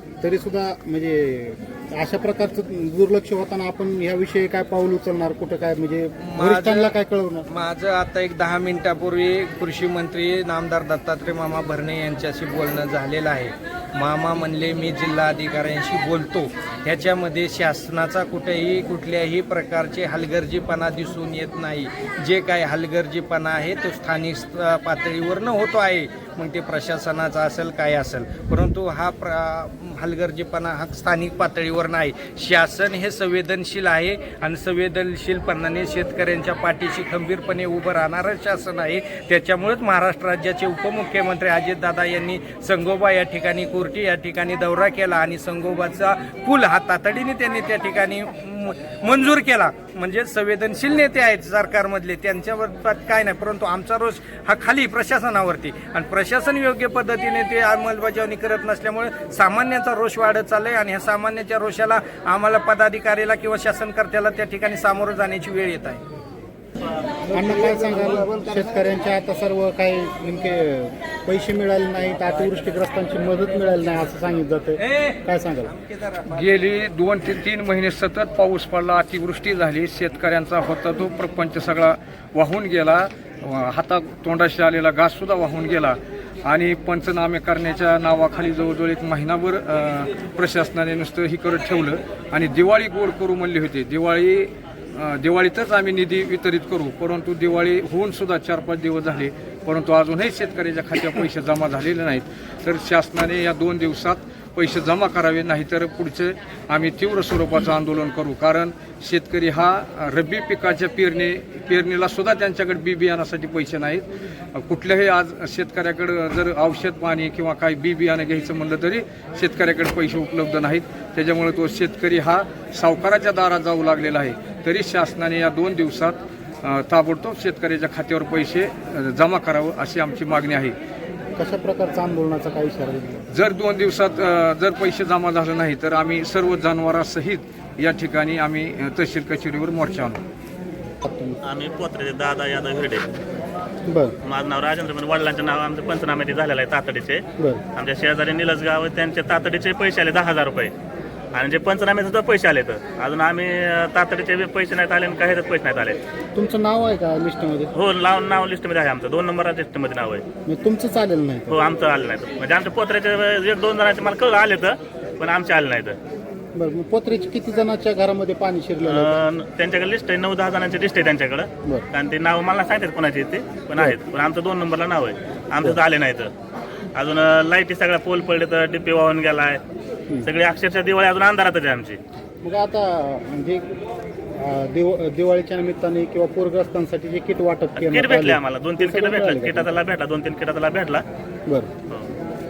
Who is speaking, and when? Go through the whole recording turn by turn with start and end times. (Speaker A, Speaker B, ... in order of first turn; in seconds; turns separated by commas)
Speaker A: 0.2-7.5, Speaker B: 6.3-6.9, Speaker B: 7.5-66.0, Speaker A: 67.3-75.7, Speaker B: 74.8-75.2, Speaker B: 75.7-76.3, Speaker C: 76.3-130.7, Speaker A: 131.4-133.2, Speaker C: 133.3-140.2, Speaker A: 141.0-141.4, Speaker D: 141.4-143.1, Speaker A: 143.9-144.1, Speaker D: 144.2-147.2, Speaker D: 147.7-150.7, Speaker D: 151.3-156.0, Speaker A: 156.3-157.7, Speaker D: 157.7-160.2, Speaker A: 160.4-161.6, Speaker D: 161.5-166.0, Speaker A: 166.5-169.2, Speaker D: 168.8-176.3, Speaker D: 176.9-179.6, Speaker D: 180.2-182.0, Speaker A: 182.4-183.6, Speaker A: 184.4-189.7, Speaker D: 187.7-191.0